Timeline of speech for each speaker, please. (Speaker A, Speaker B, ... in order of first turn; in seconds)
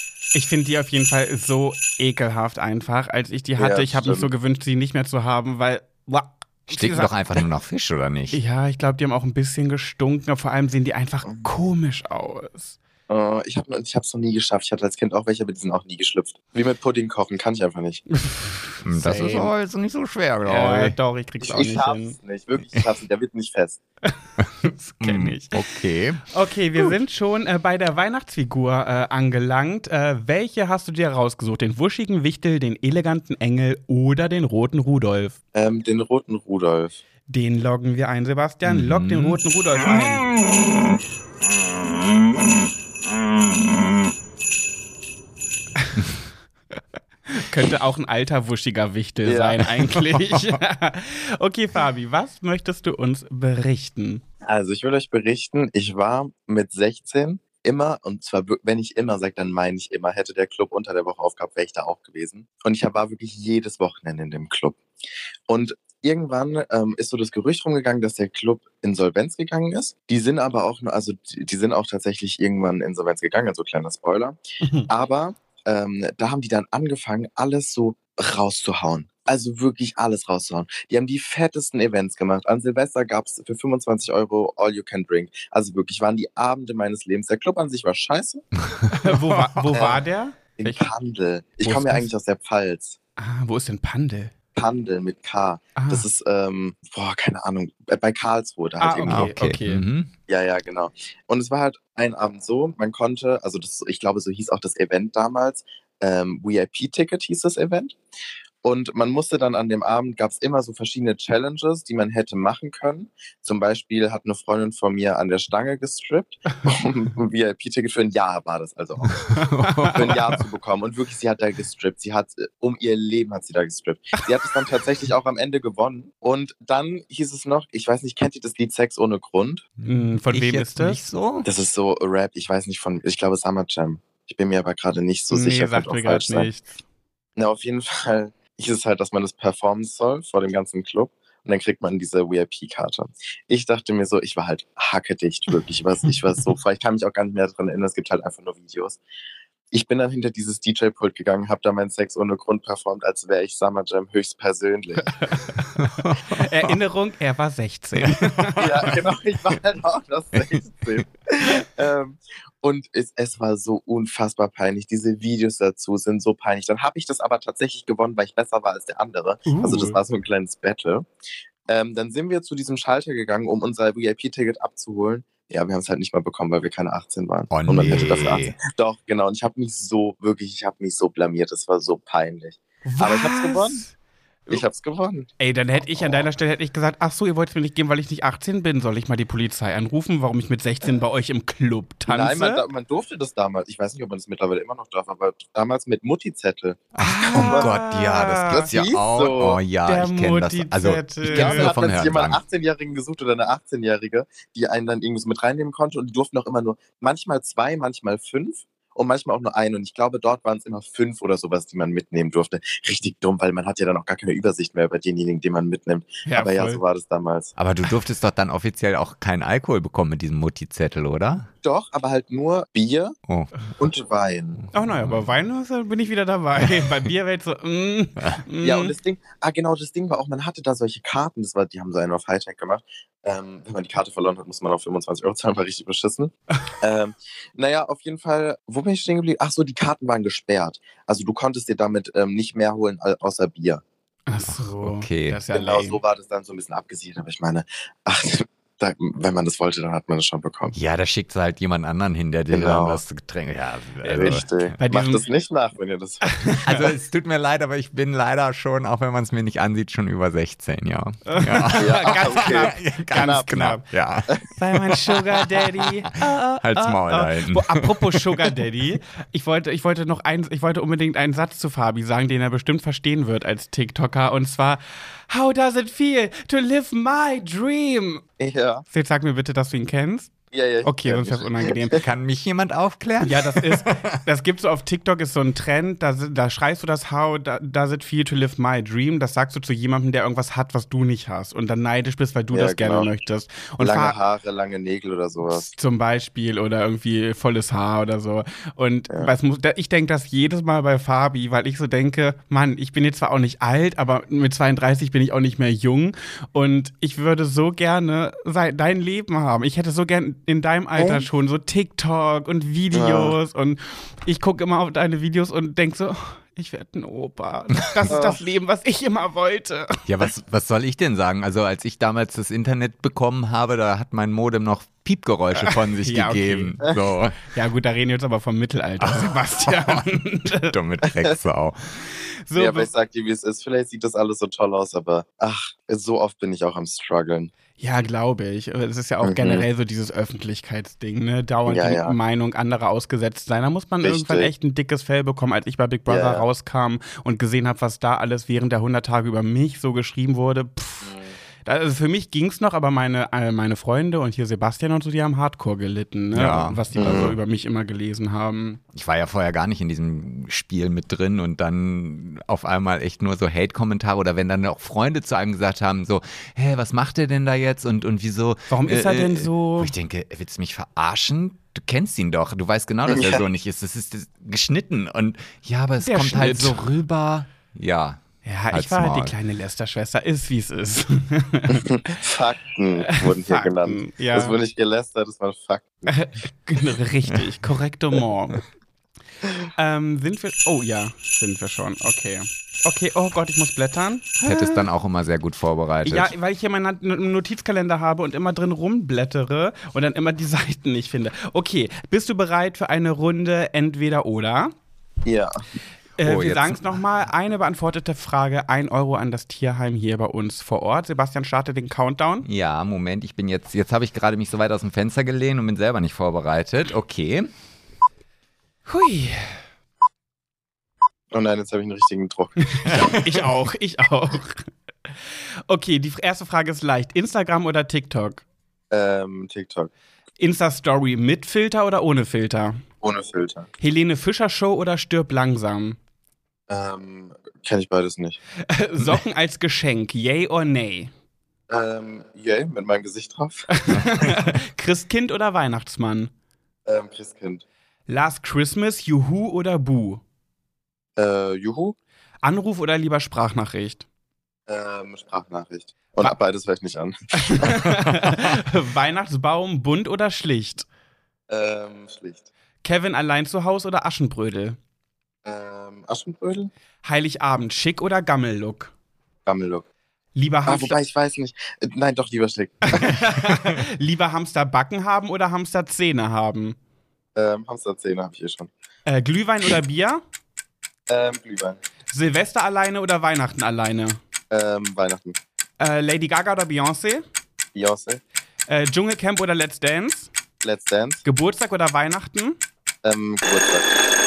Speaker A: 0.3-7.2, 8.3-12.8, 18.1-19.5, 20.4-22.1, 24.1-25.6, 26.3-35.4, 37.3-40.3, 47.3-54.2, 74.6-74.9, 88.9-90.9, 91.6-92.1, 93.2-94.3, 95.8-96.1, 98.8-99.8, 119.5-120.1, 129.8-131.0, 135.3-136.8, 155.0-158.9, 169.5-170.0, 182.8-183.9, 185.4-192.7, 197.0-198.7, 199.8-201.8, 216.3-216.8, 224.7-228.9, 244.3-246.0, 254.0-255.2, 256.2-256.9, 261.3-263.9, 264.6-278.2, 278.9-280.3, 280.8-282.0, 283.2-294.2, 295.5-320.1, 325.6-326.8, 327.4-330.8, 332.5-332.9, 337.8-358.8, 368.7-369.9, 376.0-376.8, 378.4-381.9, 383.0-384.6, 386.1-388.6, 389.8-394.9, 396.1-404.7, 406.2-412.5, 418.9-419.6, 422.6-424.7, 425.7-428.4, 430.4-432.8, 433.8-436.0, 438.7-441.1, 443.7-446.3, 448.1-450.2, 452.4-454.1, 457.4-460.9, 462.8-464.8, 467.0-468.9, 470.4-471.0, 472.9-476.8, 479.1-480.2, 482.1-484.2, 485.8-487.2, 488.7-490.3, 491.2-492.6
Speaker B: 3.6-4.3, 13.1-18.0, 21.4-23.8, 35.5-37.0, 49.2-49.6, 54.4-64.8, 65.5-74.4, 74.9-88.5, 89.7-90.0, 90.6-93.0, 94.5-99.3, 100.3-108.0, 108.6-119.2, 119.9-129.7, 131.4-136.5, 137.4-149.0, 149.7-155.1, 158.6-171.1, 171.7-183.8, 184.5-185.3, 186.0-186.3, 192.1-197.8, 198.5-199.6, 201.2-217.6, 221.6-223.2, 223.8-224.7, 228.6-243.8, 245.5-250.8, 252.5-253.0, 254.2-256.5, 261.8-263.6, 278.4-278.8, 280.5-282.1, 292.5-293.1, 293.8-295.7, 311.0-311.3, 312.9-313.4, 318.1-318.4, 331.1-331.4, 332.6-337.5, 339.2-339.7, 341.7-342.2, 344.0-344.5, 346.1-346.5, 351.0-351.3, 356.9-357.4, 373.1-373.4, 381.7-386.1, 405.2-405.5, 421.3-423.2, 428.9-429.9, 433.0-433.7, 436.7-438.4, 441.7-443.7, 446.9-447.6, 451.2-452.0, 454.7-457.9, 461.5-462.5, 465.4-466.7, 469.5-469.9, 470.7-473.1, 477.4-478.7, 481.1-481.8, 484.5-485.4, 487.8-488.2, 490.6-491.2, 493.0-493.9
Speaker C: 6.7-8.4, 18.9-21.0, 25.0-26.2, 38.6-39.4, 89.0-89.5, 99.1-100.1, 119.0-120.4, 129.8-131.5, 155.8-156.7, 157.9-158.6, 177.5-178.6, 196.9-202.4, 217.6-221.5, 244.5-245.4, 250.7-254.8, 256.6-265.9, 266.6-268.5, 282.0-284.2, 320.1-327.4, 329.0-331.8, 356.3-357.4, 358.9-379.4, 394.4-396.3, 406.2-407.0, 412.4-417.5